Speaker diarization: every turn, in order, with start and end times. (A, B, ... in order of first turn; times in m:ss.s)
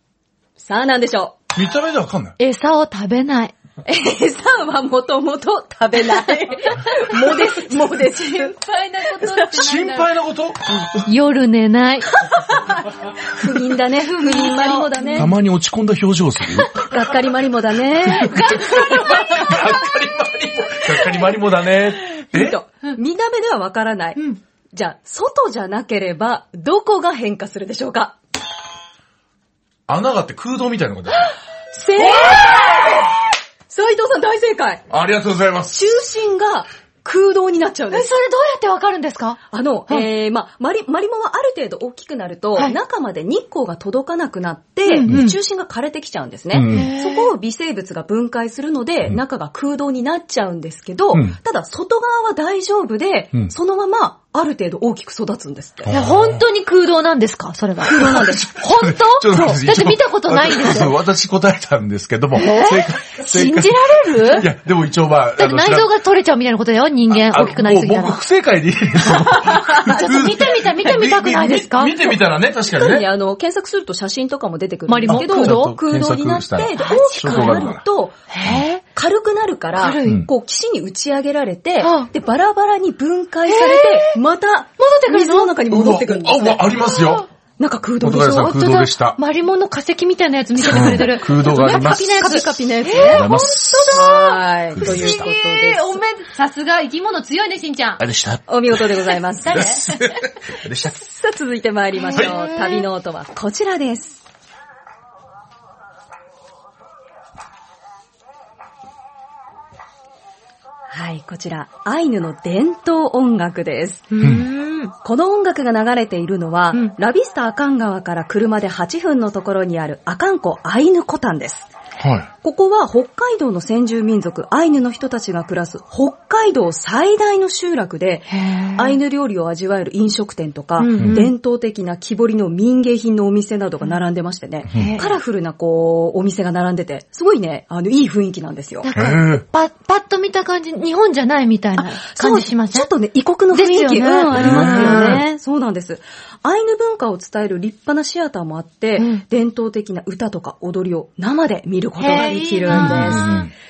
0:00.6-0:01.4 A
0:01.5-0:02.4 B
0:02.4-0:03.5 C
0:03.8-0:08.5 A
0:06.9-0:10.1 C
0:09.2-0:09.4 A
0:09.5-0:11.1 B
0:11.0-0:12.2 C
0:12.2-0:15.3 A
0:13.4-0:15.3 C
0:15.1-0:16.9 B
0:16.6-0:16.9 C
0:16.8-0:19.2 A
0:18.0-0:22.6 B
0:18.1-0:19.7 C
0:22.2-0:28.2 A
0:29.9-0:31.3 B
0:31.7-0:33.2 A
0:32.0-0:33.0 B
0:33.7-0:34.8 A
0:34.9-0:35.9 B
0:35.7-0:38.1 A
0:37.9-0:40.1 C
0:39.5-0:55.9 A
0:44.8-0:45.4 C
0:46.5-0:46.9 B
0:46.7-0:47.3 C
0:55.8-0:56.4 B
0:55.9-1:01.0 C
0:57.8-0:58.5 A
0:57.9-1:05.9 B
1:02.3-1:04.5 C
1:05.4-1:08.2 C
1:07.1-1:13.1 B
1:09.2-1:12.0 C
1:12.7-1:18.2 A
1:14.9-1:15.8 C
1:15.1-1:17.8 B
1:16.8-1:17.7 C
1:18.3-1:18.8 C
1:18.9-1:26.8 A
1:19.7-1:20.2 C
1:20.0-1:20.3 B
1:21.8-1:22.1 C
1:23.5-1:24.2 C
1:24.8-1:25.6 C
1:25.7-1:27.3 B
1:27.6-1:28.6 A
1:28.0-1:29.2 B
1:28.3-1:38.0 C
1:30.6-1:32.3 B
1:30.6-1:36.0 A
1:33.0-1:34.2 B
1:34.7-1:35.3 B
1:38.0-1:41.0 B
1:38.5-1:39.8 A
1:39.4-1:40.1 C
1:40.8-1:44.2 A
1:42.0-1:42.8 C
1:50.9-1:54.1 A
1:54.1-1:54.9 C
1:54.2-1:54.5 B
1:55.0-2:01.7 A
2:02.0-2:02.3 B
2:02.4-2:18.9 A
2:08.3-2:09.0 C
2:10.8-2:11.3 C
2:10.9-2:11.2 B
2:14.7-2:15.0 B
2:14.7-2:15.2 C
2:18.8-2:22.9 C
2:18.9-2:19.4 B
2:21.8-2:33.4 A
2:23.5-2:25.3 C
2:24.3-2:25.2 B
2:29.0-2:29.2 C
2:32.0-2:33.5 C
2:32.7-2:33.5 B